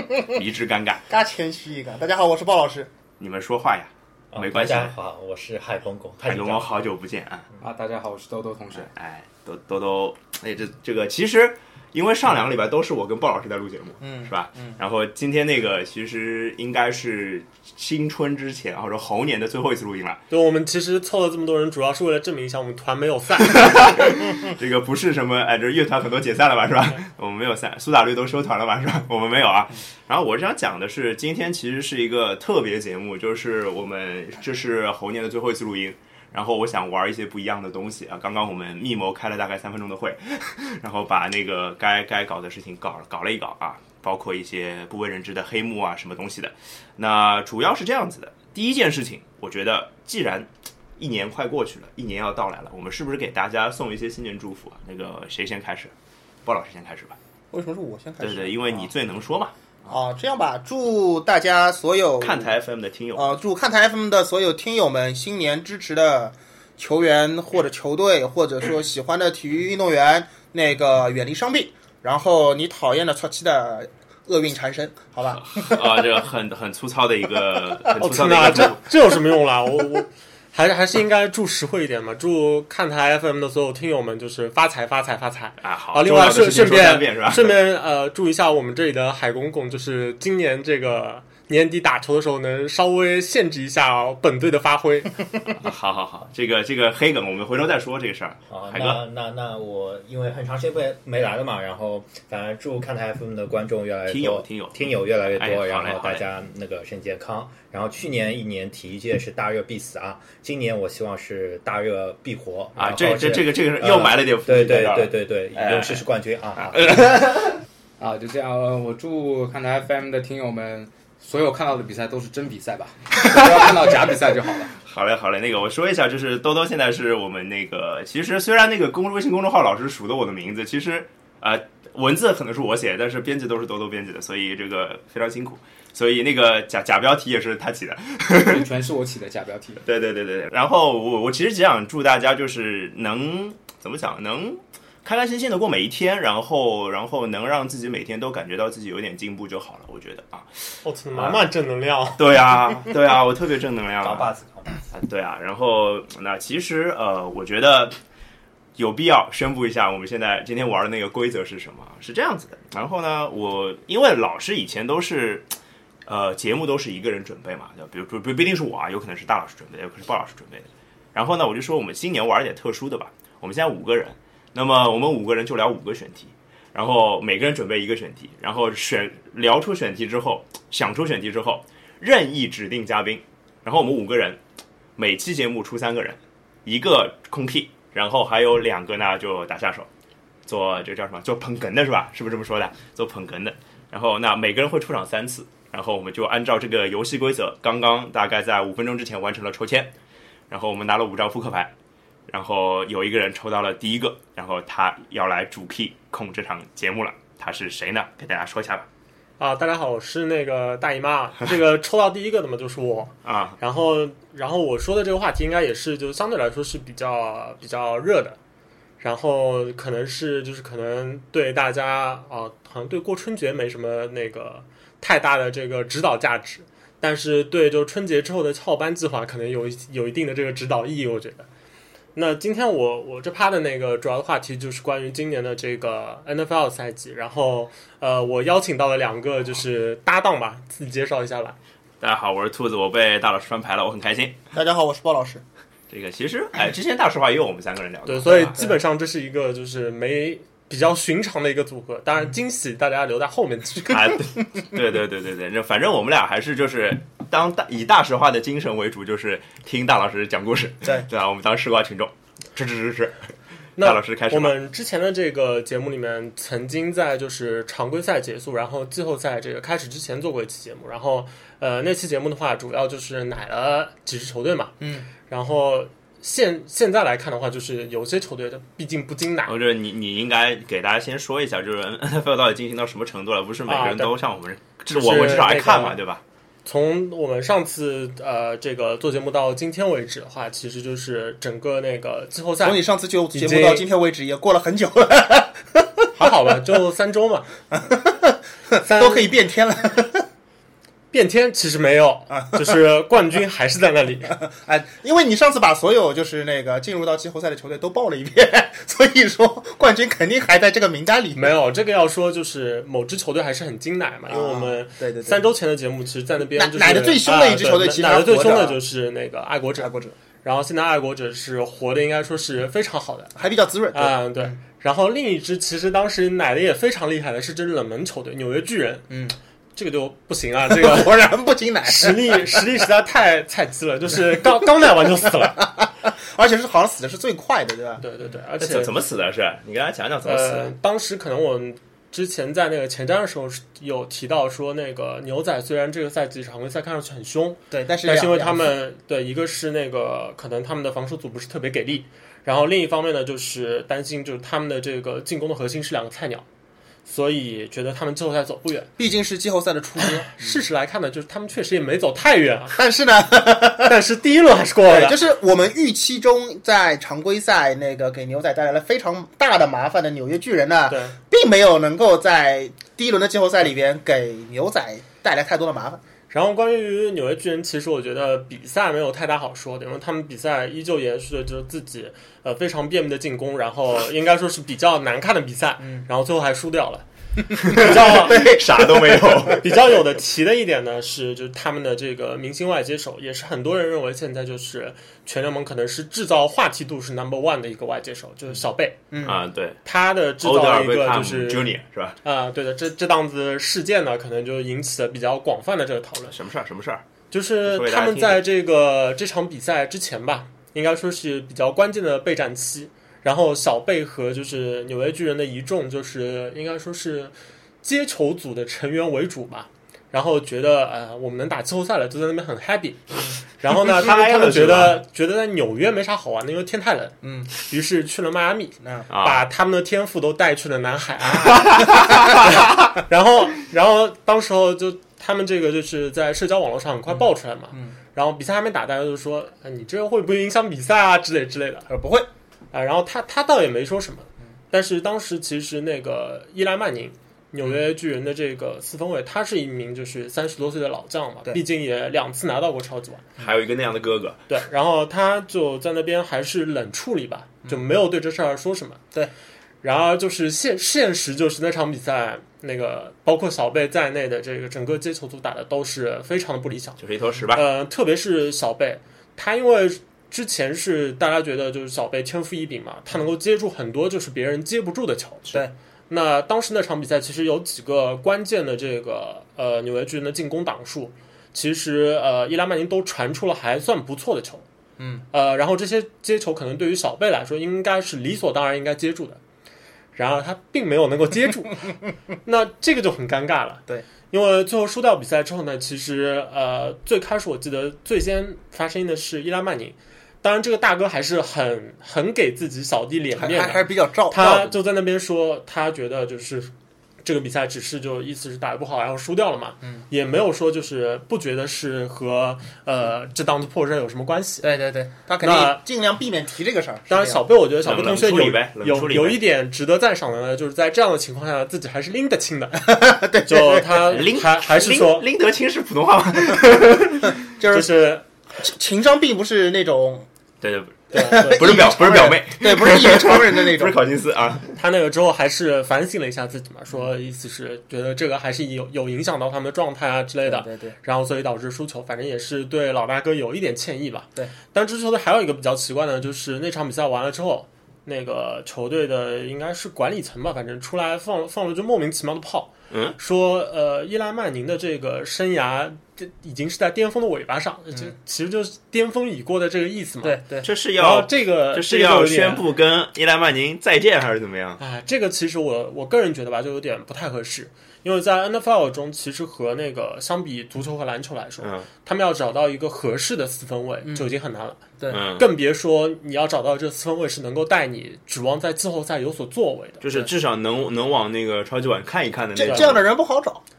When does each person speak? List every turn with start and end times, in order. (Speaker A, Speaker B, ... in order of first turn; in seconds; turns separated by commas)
Speaker A: 0.3-1.1, Speaker B: 1.1-2.9, Speaker A: 3.2-5.0, Speaker C: 4.3-6.8, Speaker A: 6.2-7.5, Speaker D: 7.6-8.9, Speaker A: 8.8-20.2, Speaker B: 14.0-14.8, Speaker E: 20.3-24.1, Speaker A: 23.5-55.9, Speaker A: 56.5-57.2, Speaker B: 57.5-58.9, Speaker A: 58.2-59.5, Speaker B: 59.9-62.5, Speaker A: 62.2-63.4, Speaker B: 63.1-75.8, Speaker A: 75.3-78.8, Speaker E: 78.0-95.3, Speaker A: 85.6-87.5, Speaker A: 95.5-99.0, Speaker C: 98.5-117.0, Speaker A: 104.1-106.2, Speaker A: 112.8-116.0, Speaker A: 116.6-117.6, Speaker D: 118.0-124.8, Speaker A: 124.8-138.6, Speaker D: 138.4-139.8, Speaker A: 139.8-151.4, Speaker E: 150.8-152.2, Speaker A: 152.2-154.3, Speaker C: 154.0-154.8, Speaker A: 154.9-158.0, Speaker A: 158.8-165.5, Speaker A: 166.1-184.4, Speaker A: 185.0-189.9, Speaker A: 190.5-199.9, Speaker A: 200.5-201.7, Speaker A: 202.3-208.9, Speaker E: 209.4-218.4, Speaker A: 213.2-213.6, Speaker E: 219.0-231.5, Speaker E: 232.2-241.6, Speaker A: 242.0-244.4, Speaker B: 244.5-245.4, Speaker A: 245.9-248.6, Speaker E: 248.1-254.0, Speaker A: 253.9-264.5, Speaker E: 263.8-279.5, Speaker B: 274.8-275.1, Speaker A: 279.5-286.2, Speaker E: 283.7-284.1, Speaker E: 284.9-286.0, Speaker E: 286.6-293.9, Speaker B: 292.6-296.1, Speaker E: 296.2-297.5, Speaker B: 297.7-300.2, Speaker E: 298.8-299.3, Speaker E: 301.1-304.4, Speaker B: 302.3-302.8, Speaker B: 304.4-311.5, Speaker E: 311.3-319.9, Speaker B: 314.3-315.4, Speaker B: 316.6-318.8, Speaker B: 319.8-320.1, Speaker E: 320.4-323.3, Speaker B: 323.4-324.6, Speaker E: 323.9-329.2, Speaker B: 329.1-329.4, Speaker E: 329.8-331.3, Speaker B: 330.7-332.4, Speaker E: 331.9-335.7, Speaker B: 335.6-338.0, Speaker E: 338.0-338.9, Speaker A: 338.6-340.7, Speaker E: 340.2-356.4, Speaker B: 347.7-348.7, Speaker E: 357.1-358.9, Speaker B: 359.0-360.6, Speaker E: 360.0-362.8, Speaker B: 362.7-363.9, Speaker E: 363.8-365.2, Speaker B: 364.9-376.0, Speaker E: 370.9-371.2, Speaker E: 376.3-387.1, Speaker E: 387.6-388.6, Speaker A: 387.6-389.6, Speaker B: 387.8-388.6, Speaker B: 389.1-389.5, Speaker E: 389.5-399.1, Speaker B: 399.1-399.4, Speaker A: 399.2-399.8, Speaker E: 399.9-401.7, Speaker A: 400.4-402.2, Speaker E: 402.2-406.4, Speaker A: 406.3-407.0, Speaker E: 407.3-441.9, Speaker A: 407.6-408.4, Speaker A: 423.7-425.0, Speaker B: 427.2-427.5, Speaker A: 429.1-429.4, Speaker A: 431.7-432.4, Speaker B: 437.1-437.9, Speaker B: 441.9-442.3, Speaker E: 442.7-453.3, Speaker A: 453.4-454.4, Speaker E: 454.5-459.0, Speaker E: 459.8-467.0, Speaker A: 467.0-467.7, Speaker E: 467.5-484.6, Speaker E: 485.3-489.4, Speaker E: 490.1-491.9, Speaker E: 492.5-506.7, Speaker B: 503.4-504.8, Speaker E: 507.2-514.7, Speaker B: 514.6-517.4, Speaker E: 515.4-515.8, Speaker E: 517.1-525.3, Speaker A: 517.8-519.4, Speaker B: 522.8-524.1, Speaker A: 524.0-527.3, Speaker B: 527.6-527.9, Speaker E: 527.7-528.2, Speaker B: 528.6-530.3, Speaker A: 530.6-534.8, Speaker B: 531.1-534.0, Speaker E: 531.1-532.2, Speaker E: 534.8-562.6, Speaker B: 540.5-541.0, Speaker A: 552.9-553.2, Speaker B: 560.2-560.7, Speaker A: 560.6-564.8, Speaker E: 564.8-580.3, Speaker A: 571.6-571.9, Speaker A: 575.1-575.5, Speaker A: 580.0-583.0, Speaker B: 582.6-583.6, Speaker E: 582.7-582.9